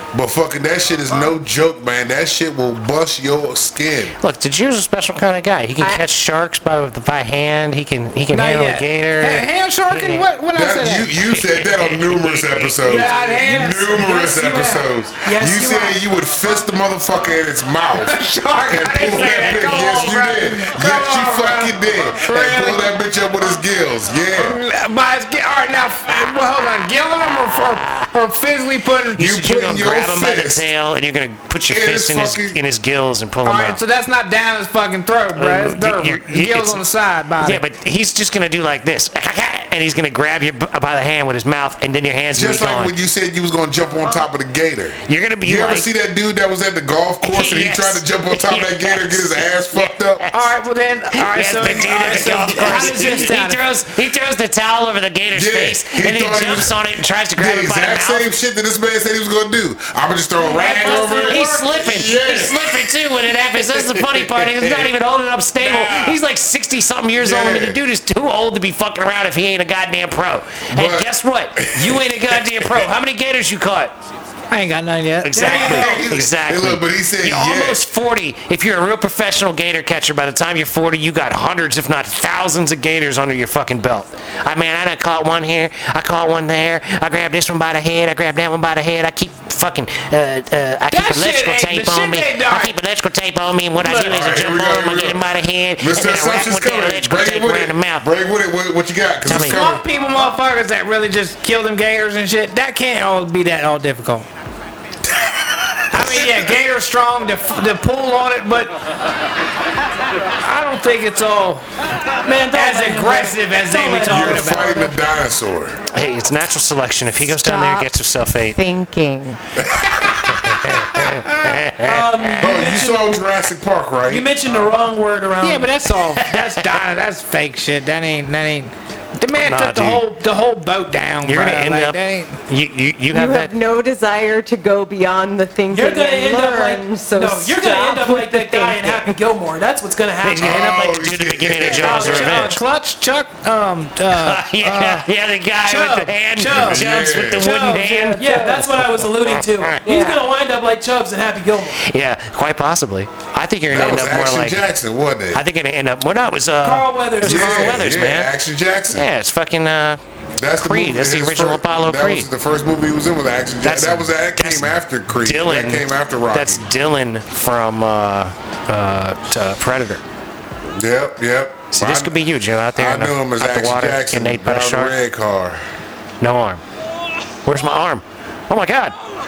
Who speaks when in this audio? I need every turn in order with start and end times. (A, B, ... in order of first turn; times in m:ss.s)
0:00.1-0:04.1 A
0:04.2-0:10.3 B
0:05.8-0:06.0 C
0:08.3-0:11.1 D
0:10.5-0:24.6 A
0:11.2-0:13.2 B
0:12.8-0:14.0 D
0:13.8-0:16.0 E
0:17.9-0:22.9 D
0:24.4-0:29.3 D
0:29.2-0:30.7 A
0:29.2-0:33.8 B
0:31.7-0:32.6 A
0:33.4-0:37.6 D
0:35.3-0:36.8 B
0:37.4-0:42.9 B
0:42.3-0:50.2 A
0:45.0-0:45.9 B
0:47.2-0:50.5 B
0:50.3-0:53.6 D
0:51.1-0:58.3 B
0:55.3-0:56.8 A
0:57.4-1:04.9 A
1:00.5-1:01.5 E
1:00.6-1:13.9 B
1:05.6-1:06.2 A
1:07.2-1:07.8 A
1:10.7-1:12.9 A
1:14.5-1:15.5 D
1:15.2-1:38.1 B
1:15.3-1:16.1 E
1:15.4-1:17.9 A
1:30.9-1:32.7 D
1:33.8-1:34.2 D
1:34.0-1:39.8 A
1:39.2-1:39.7 B
1:39.3-1:44.2 D
1:45.5-1:46.5 A
1:45.9-1:48.7 D
1:50.4-1:51.6 D
1:52.2-1:54.8 E
1:52.5-1:54.9 D
1:54.0-1:55.8 A
1:55.9-1:58.6 B
1:57.2-1:57.9 C
1:58.5-1:59.4 C
1:59.6-2:01.1 A
2:00.2-2:02.6 B
2:01.1-2:01.6 D
2:01.8-2:03.2 E
2:02.4-2:04.3 A
2:04.1-2:05.7 E
2:05.4-2:12.4 D
2:06.1-2:06.5 B
2:09.4-2:10.0 B
2:11.2-2:13.5 B
2:13.1-2:19.1 C
2:15.7-2:20.8 E
2:20.2-2:22.6 B
2:20.4-2:22.4 A
2:21.6-2:22.5 E
2:21.7-2:25.1 D
2:24.1-2:28.3 B
2:25.6-2:28.8 D
2:26.5-2:27.5 A
2:28.2-2:31.8 E
2:29.0-2:29.8 B
2:31.8-2:34.6 B
2:33.7-2:35.4 A
2:35.3-2:38.3 B
2:36.6-2:37.8 E
2:37.2-2:39.0 A
2:38.9-2:40.0 B
2:40.4-2:46.6 A
2:40.6-2:42.3 B
2:43.6-2:50.0 B
2:50.8-2:52.2 A
2:51.7-2:55.0 B
2:52.7-2:55.6 A
2:56.2-2:56.6 B
2:57.4-2:59.0 B